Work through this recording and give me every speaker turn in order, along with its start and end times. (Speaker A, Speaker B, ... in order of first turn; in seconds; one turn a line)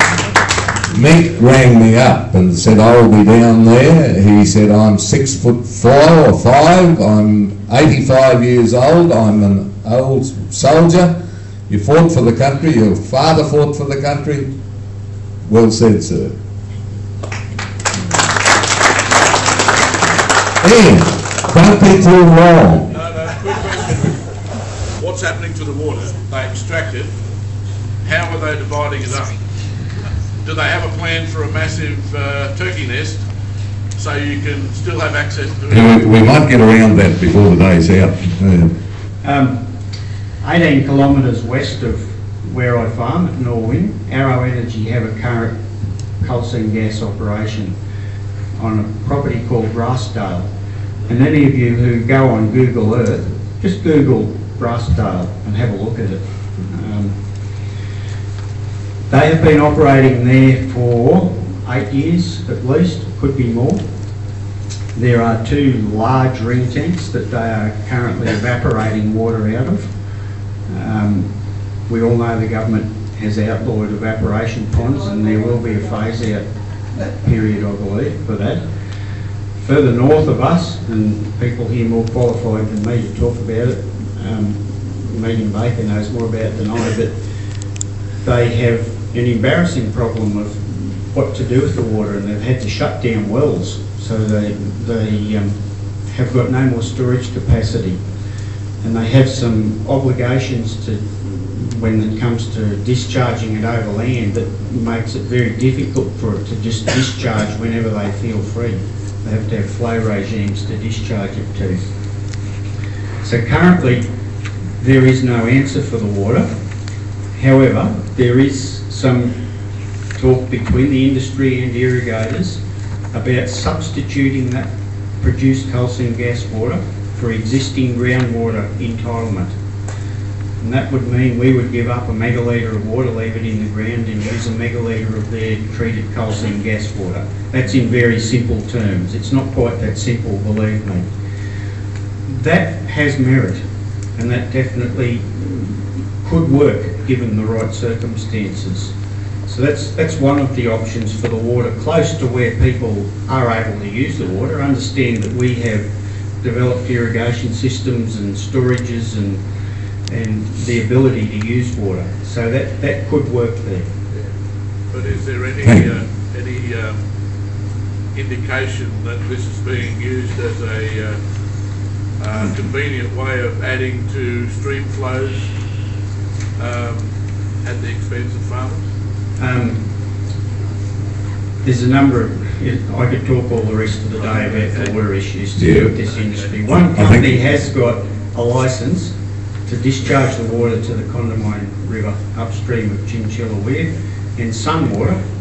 Speaker A: 0.9-11.2
Speaker A: 11.7-14.5
Speaker A: 15.4-16.4
Speaker A: 20.6-22.9
Speaker B: 22.9-24.2
Speaker B: 25.0-27.1
Speaker B: 28.0-29.4
Speaker B: 30.4-33.2
Speaker B: 34.0-36.0
Speaker A: 35.7-38.7
Speaker C: 39.2-39.6
Speaker C: 40.4-45.6
Speaker C: 46.2-47.7
Speaker C: 48.6-50.5
Speaker C: 51.1-57.2
Speaker C: 59.1-63.8
Speaker C: 65.0-69.9
Speaker C: 70.7-71.3
Speaker C: 71.9-76.5
Speaker C: 77.0-78.6
Speaker C: 79.6-87.2
Speaker C: 88.2-95.6
Speaker C: 96.1-98.0
Speaker C: 98.8-111.8
Speaker C: 113.2-114.0
Speaker C: 114.8-116.5
Speaker C: 117.3-119.3
Speaker C: 120.2-122.6
Speaker C: 123.1-124.7
Speaker C: 125.2-129.5
Speaker C: 130.6-141.1
Speaker C: 142.3-143.6
Speaker C: 144.2-148.9
Speaker C: 149.5-155.9
Speaker C: 156.4-159.4
Speaker C: 160.1-163.9
Speaker B: 164.9-167.0
Speaker B: 168.1-171.2
Speaker B: 172.2-175.5
Speaker B: 176.6-177.1
Speaker B: 177.6-178.8
Speaker C: 179.4-179.8
Speaker C: 181.6-189.1
Speaker A: 185.6-185.9
Speaker A: 186.9-187.4
Speaker C: 189.7-195.2